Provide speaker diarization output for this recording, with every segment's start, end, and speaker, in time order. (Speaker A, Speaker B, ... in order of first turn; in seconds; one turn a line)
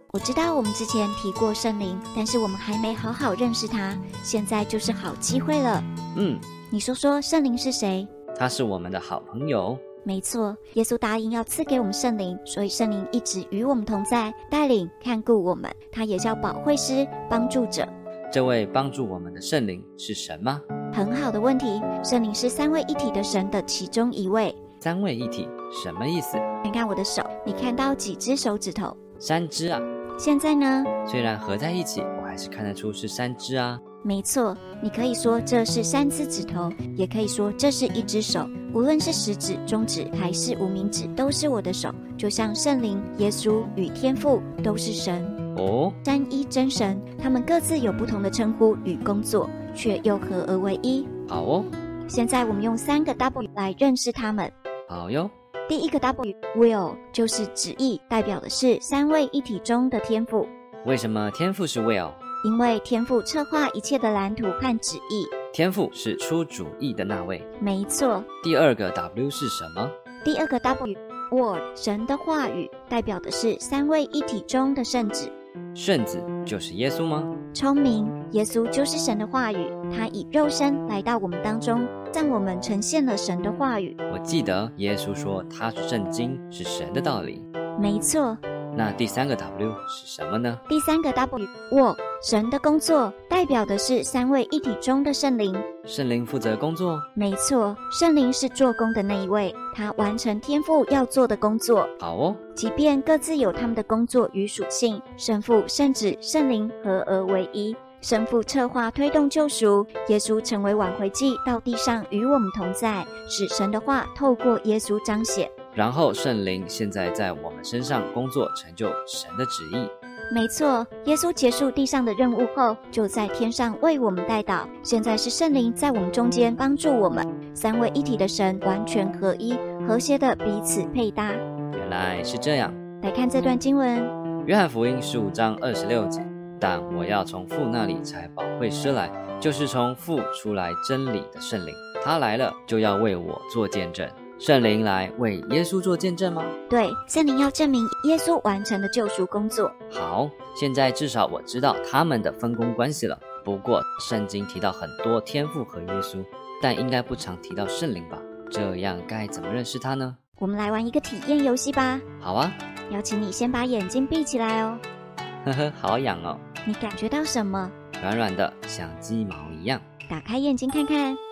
Speaker A: 0.1-5.9
Speaker B: 6.2-6.4
Speaker A: 6.7-8.1
Speaker B: 8.3-9.8
Speaker A: 10.1-17.9
Speaker B: 18.3-20.6
Speaker A: 20.9-24.6
Speaker B: 24.8-26.4
Speaker A: 26.7-29.0
Speaker B: 29.2-29.9
Speaker A: 30.2-30.9
Speaker B: 31.1-33.8
Speaker A: 34.0-45.4
Speaker B: 45.5-46.0
Speaker A: 46.0-51.1
Speaker B: 51.3-51.7
Speaker A: 52.1-54.5
Speaker B: 54.9-55.3
Speaker A: 55.7-60.5
Speaker B: 60.8-62.2
Speaker A: 62.4-65.3
Speaker B: 65.5-67.5
Speaker A: 67.6-68.3
Speaker B: 68.4-69.9
Speaker A: 70.2-75.3
Speaker B: 75.8-77.3
Speaker A: 77.5-84.0
Speaker B: 84.1-87.5
Speaker A: 87.8-88.4
Speaker B: 88.7-90.6
Speaker A: 90.7-95.7
Speaker B: 95.9-97.1
Speaker A: 97.2-101.9
Speaker B: 102.0-102.4
Speaker A: 102.5-115.5
Speaker B: 115.8-119.9
Speaker A: 120.3-131.4
Speaker B: 131.7-132.8
Speaker A: 133.0-134.1
Speaker B: 134.4-146.6
Speaker A: 146.7-149.7
Speaker B: 149.9-160.2
Speaker A: 160.4-162.1
Speaker B: 162.2-162.6
Speaker A: 162.9-164.8
Speaker B: 165.4-166.4
Speaker A: 166.7-167.8
Speaker B: 168.0-169.8
Speaker A: 170.1-171.2